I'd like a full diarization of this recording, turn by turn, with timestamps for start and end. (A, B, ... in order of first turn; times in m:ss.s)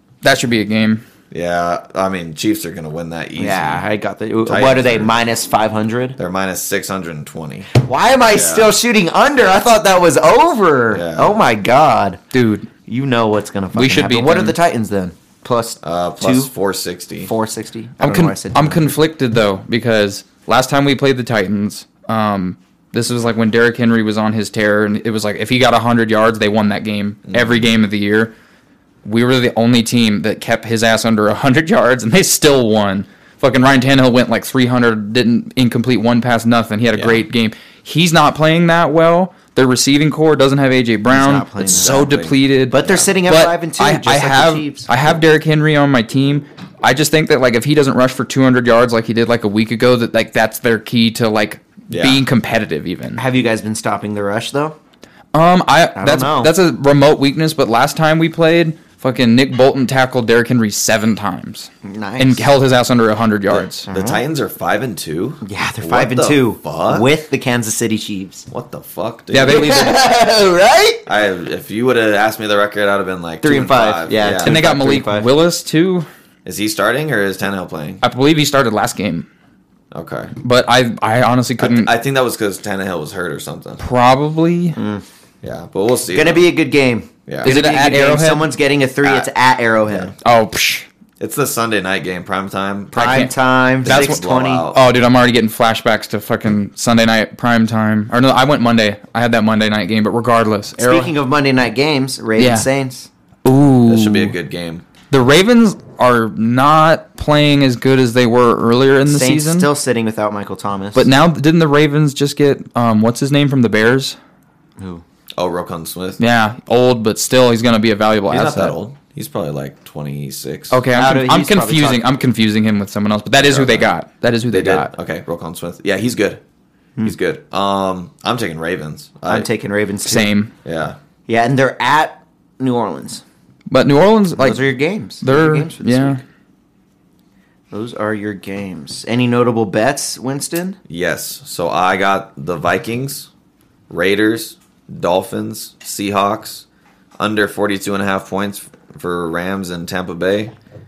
0:00.2-0:01.0 A
0:01.3-0:03.8 B
0:03.4-0:06.2 C
0:04.4-0:05.1 B
0:06.2-0:07.7 B
0:07.7-0:12.2 C
0:08.3-0:08.7 B
0:10.9-0:11.4 B
0:12.3-0:12.7 A
0:12.9-0:16.5 C
0:13.7-0:14.6 A
0:15.8-0:17.3 B
0:17.3-0:19.0 C
0:18.0-0:28.3 A
0:27.3-0:27.7 B
0:29.0-0:53.2 A
0:37.0-0:37.2 B
0:41.1-0:42.1 C
0:41.7-0:42.4 B
0:42.7-0:45.0 C
0:51.9-0:52.2 B
0:53.2-0:54.8 C
0:55.3-1:03.9 A
0:56.0-0:56.6 C
1:01.8-1:02.5 C
1:03.5-1:07.1 B
1:03.9-1:04.2 C
1:05.4-1:08.5 C
1:08.5-1:09.9 B
1:09.3-1:10.0 A
1:09.5-1:11.1 C
1:11.1-1:14.6 B
1:13.4-1:15.3 C
1:14.4-1:16.1 A
1:16.4-1:18.0 B
1:18.0-1:19.3 A
1:19.9-1:20.3 B
1:20.4-1:21.9 A
1:21.6-1:23.8 B
1:23.8-1:24.8 A
1:24.8-1:25.0 C
1:25.4-1:26.5 B
1:26.1-1:30.2 C
1:27.3-1:27.5 B
1:27.4-1:28.5 A
1:29.0-1:29.3 B
1:30.2-1:30.9 A
1:31.2-1:33.3 B
1:32.9-1:34.7 C
1:33.0-1:33.3 A
1:33.8-1:34.8 B
1:33.9-1:41.1 A
1:40.8-1:43.1 C
1:42.4-1:42.7 A
1:43.4-1:44.3 A
1:43.9-1:44.8 B
1:45.1-1:49.7 A
1:49.1-1:51.1 C
1:51.0-1:54.2 A
1:54.8-1:55.0 C
1:55.4-1:56.2 B
1:56.2-1:58.8 A
1:58.3-2:00.8 B
2:00.7-2:04.9 A
2:00.9-2:02.0 C
2:03.4-2:03.9 B
2:04.5-2:06.4 B
2:07.0-2:09.5 B
2:09.3-2:10.3 C
2:10.0-2:10.5 A
2:10.6-2:11.0 B
2:11.3-2:13.2 C
2:13.7-2:14.6 A
2:14.4-2:16.2 C
2:15.2-2:16.2 A
2:17.7-2:20.8 C
2:20.9-2:23.3 B
2:23.9-2:26.6 B
2:27.2-2:30.5 B